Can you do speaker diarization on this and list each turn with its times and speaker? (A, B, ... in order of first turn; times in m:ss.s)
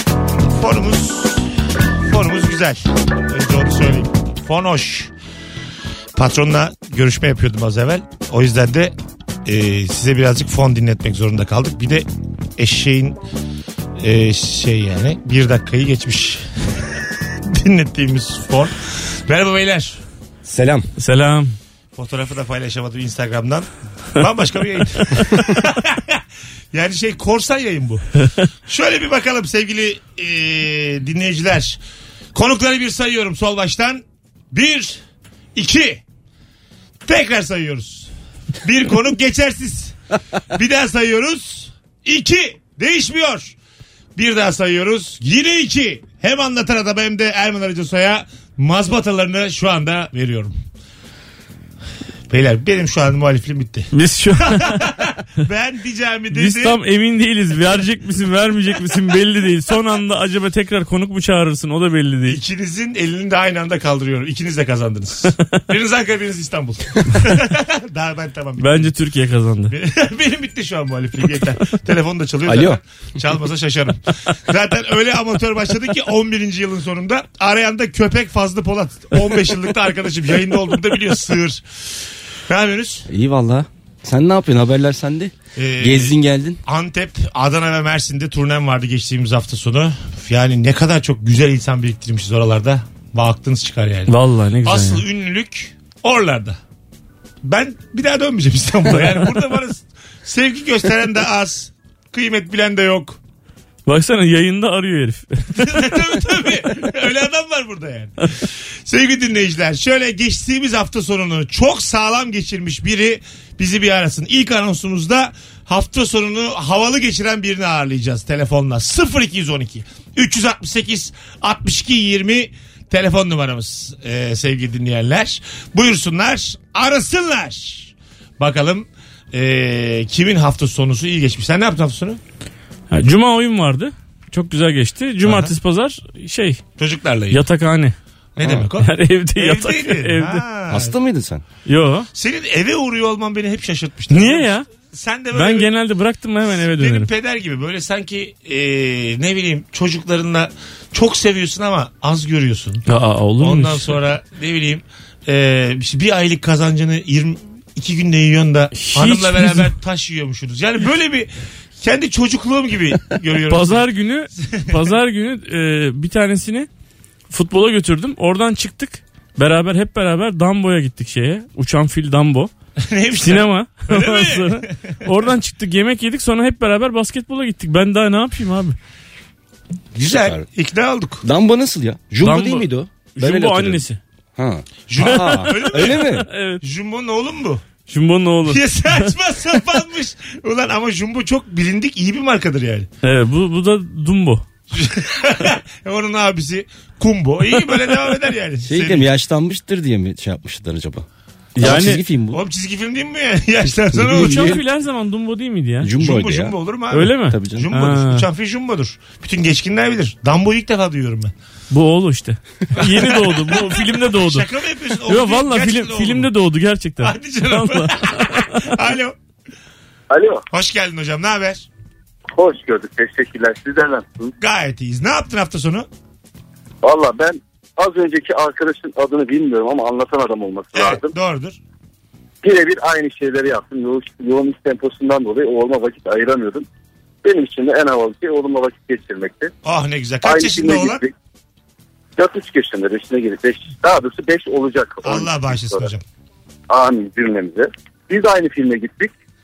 0:00.5-0:01.5 A
0:02.0-0:05.1 A
0:06.2-0:08.9 A
0:09.4-0:12.0 A
0:12.6-0:13.2 A
0:14.0-0:16.4 A
0:17.5-0:20.0 A
0:20.4-0:20.9 B
0:21.0-0:21.5 C
0:22.0-0:26.2 A
0:26.7-0:28.0 A
0:28.7-0:31.8 A
0:32.3-0:35.0 A
0:35.5-0:36.0 A
0:37.0-0:38.1 A
0:38.6-0:39.9 A
0:40.5-0:43.6 A
0:44.2-0:50.6 A
0:52.3-0:56.8 A
0:53.9-0:54.9 C
0:56.3-1:02.4 C
1:02.3-1:08.9 A
1:08.6-1:09.7 C
1:09.7-1:21.6 A
1:12.4-1:12.8 B
1:22.5-1:23.1 A
1:23.1-1:26.6 B
1:25.6-1:36.6 A
1:34.1-1:35.0 C
1:37.4-1:43.2 A
1:43.9-1:46.0 C
1:45.6-2:12.2 A
2:12.9-2:16.6 C
2:15.2-2:15.5 A
2:16.8-2:17.4 A
2:17.3-2:17.9 C
2:18.4-2:20.9 A
2:18.7-2:20.4 C
2:20.7-2:21.4 B
2:21.6-2:22.1 C
2:22.1-2:25.7 A
2:24.1-2:24.7 C
2:25.3-2:27.1 C
2:26.5-2:32.8 A
2:32.9-2:34.0 C
2:33.4-2:43.8 A
2:38.7-2:39.7 C
2:43.5-2:46.7 C
2:44.4-2:44.7 A
2:47.3-2:52.5 C
2:52.8-2:54.8 A
2:53.2-2:58.8 C
2:59.9-3:01.2 A
3:00.1-3:00.4 B
3:01.2-3:03.8 B
3:02.2-3:04.0 C
3:04.4-3:06.3 B
3:04.9-3:07.6 A
3:05.0-3:06.6 C
3:07.9-3:09.1 C
3:08.4-3:12.9 A
3:13.0-3:14.4 C
3:14.7-3:19.1 A
3:17.6-3:18.0 C
3:18.6-3:21.0 B
3:21.6-3:22.0 C
3:21.6-3:22.4 B
3:22.3-3:24.6 A
3:23.9-3:24.6 B
3:24.1-3:25.9 C
3:25.8-3:26.6 B
3:26.0-3:31.3 A
3:26.9-3:28.2 C
3:27.3-3:27.7 B
3:31.7-3:34.5 C
3:32.7-3:36.3 A
3:35.1-3:38.7 C
3:37.0-3:39.1 A
3:40.1-3:40.4 D
3:40.5-3:41.7 A
3:42.4-3:44.3 D
3:44.4-3:45.9 A
3:46.8-3:51.1 D
3:50.7-3:51.6 A
3:52.4-3:56.6 D
3:57.2-3:59.5 D
3:59.6-4:01.0 A
4:00.2-4:01.1 D
4:02.2-4:05.9 D
4:05.0-4:06.0 A
4:06.7-4:09.1 D